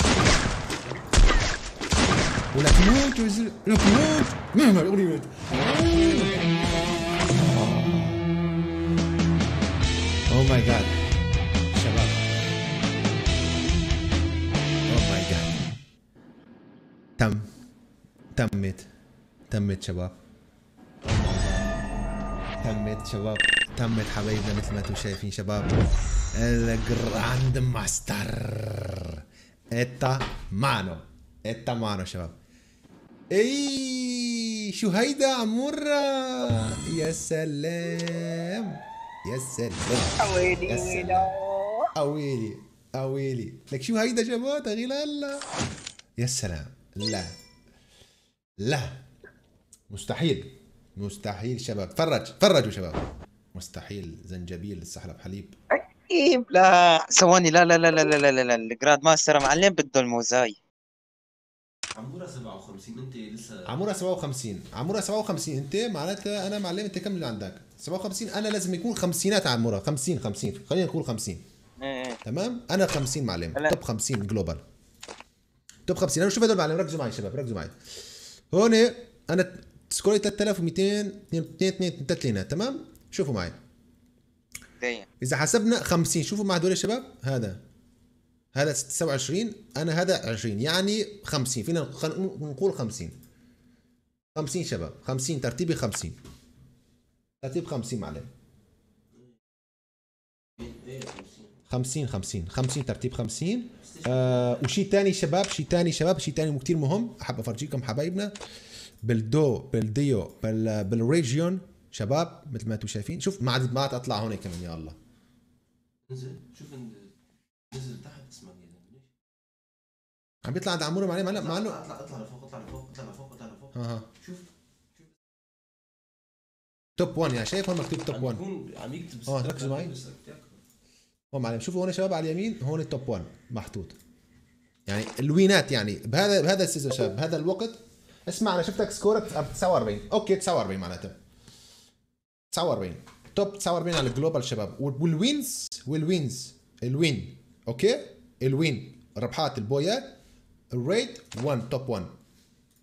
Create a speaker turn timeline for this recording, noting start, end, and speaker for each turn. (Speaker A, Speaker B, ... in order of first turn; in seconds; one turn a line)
Speaker A: 0.7-1.1
Speaker B: 2.5-6.4
Speaker A: 6.2-6.5
Speaker B: 7.3-8.3
Speaker B: 10.3-11.0
Speaker B: 11.7-12.3
Speaker B: 14.9-15.6
Speaker B: 17.2-17.5
Speaker B: 18.3-18.9
Speaker B: 19.5-20.1
Speaker B: 21.1-21.7
Speaker B: 22.6-25.8
Speaker B: 26.3-32.3
Speaker B: 33.3-41.3
Speaker C: 40.2-41.9
Speaker B: 41.9-45.5
Speaker B: 46.2-47.3
Speaker B: 48.6-49.0
Speaker B: 49.9-53.0
Speaker B: 53.5-55.5
Speaker C: 55.7-60.6
Speaker A: 61.9-63.8
Speaker B: 63.6-71.4
Speaker C: 71.8-72.2
Speaker B: 72.2-74.6
Speaker B: 75.9-77.7
Speaker B: 78.5-83.6
Speaker C: 84.8-85.1
Speaker B: 85.2-87.6
Speaker B: 88.5-93.2
Speaker B: 94.3-96.2
Speaker B: 97.4-98.3
Speaker A: 100.6-101.5
Speaker B: 101.7-108.3
Speaker A: 103.8-104.7
Speaker B: 109.0-114.9
Speaker A: 116.1-117.1
Speaker A: 117.7-119.1
Speaker B: 120.4-121.8
Speaker A: 121.3-124.5
Speaker B: 123.7-124.1
Speaker B: 127.0-128.4
Speaker A: 128.1-130.6
Speaker B: 129.3-129.9
Speaker B: 131.3-133.9
Speaker B: 134.9-141.1
Speaker B: 142.5-150.2
Speaker B: 150.7-152.1